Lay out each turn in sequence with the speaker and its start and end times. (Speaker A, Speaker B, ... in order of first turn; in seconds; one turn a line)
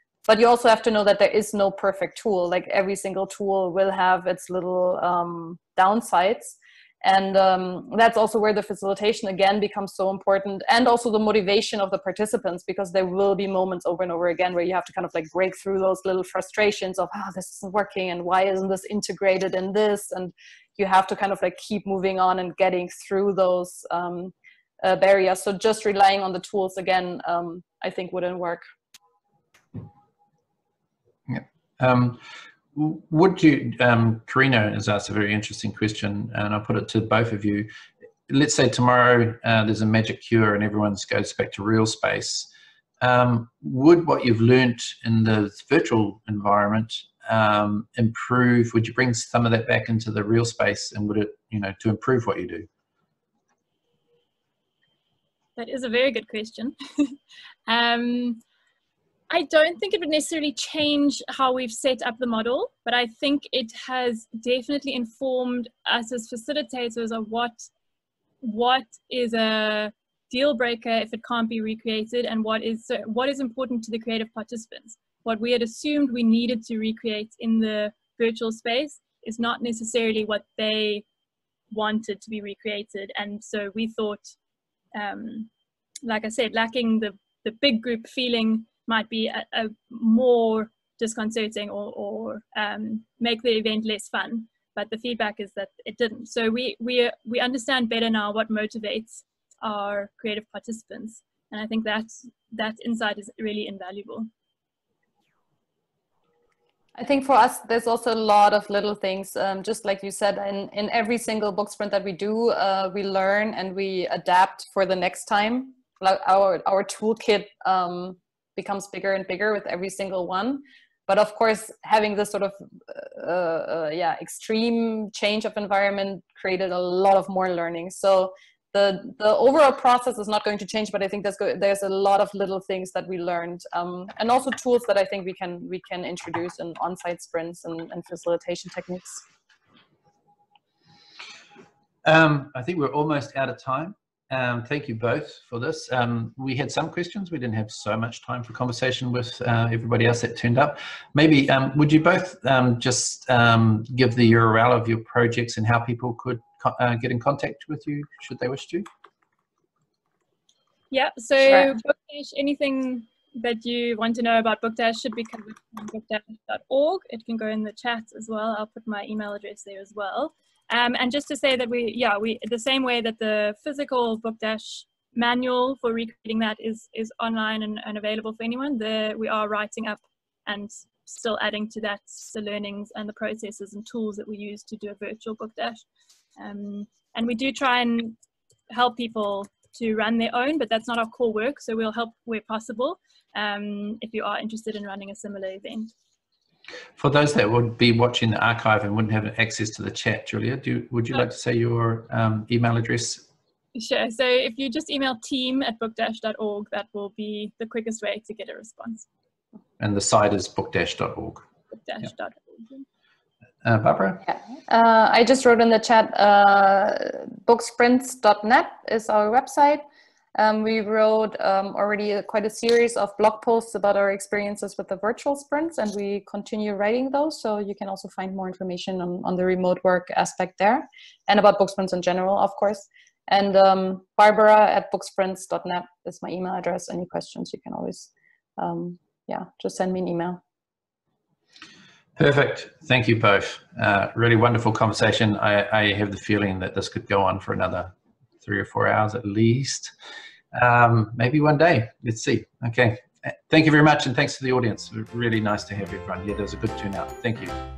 Speaker A: 0.3-28.6
Speaker B: 31.3-32.2
Speaker B: 32.7-37.7
Speaker B: 38.3-42.5
Speaker B: 43.0-52.7
Speaker C: 55.6-57.2
Speaker C: 57.7-58.4
Speaker C: 59.3-67.7
Speaker C: 68.4-81.1
Speaker C: 81.7-84.3
Speaker C: 85.0-85.5
Speaker C: 86.0-104.3
Speaker A: 107.0-139.2
Speaker B: 142.0-158.9
Speaker C: 160.9-185.8
Speaker A: 161.4-161.7
Speaker C: 186.4-188.2
Speaker C: 188.7-195.9
Speaker B: 197.0-203.3
Speaker C: 203.8-209.1
Speaker B: 209.8-211.4
Speaker C: 211.7-212.9
Speaker B: 213.6-214.3
Speaker A: 214.3-219.8
Speaker A: 220.3-240.4
Speaker B: 242.2-249.9
Speaker B: 250.5-257.6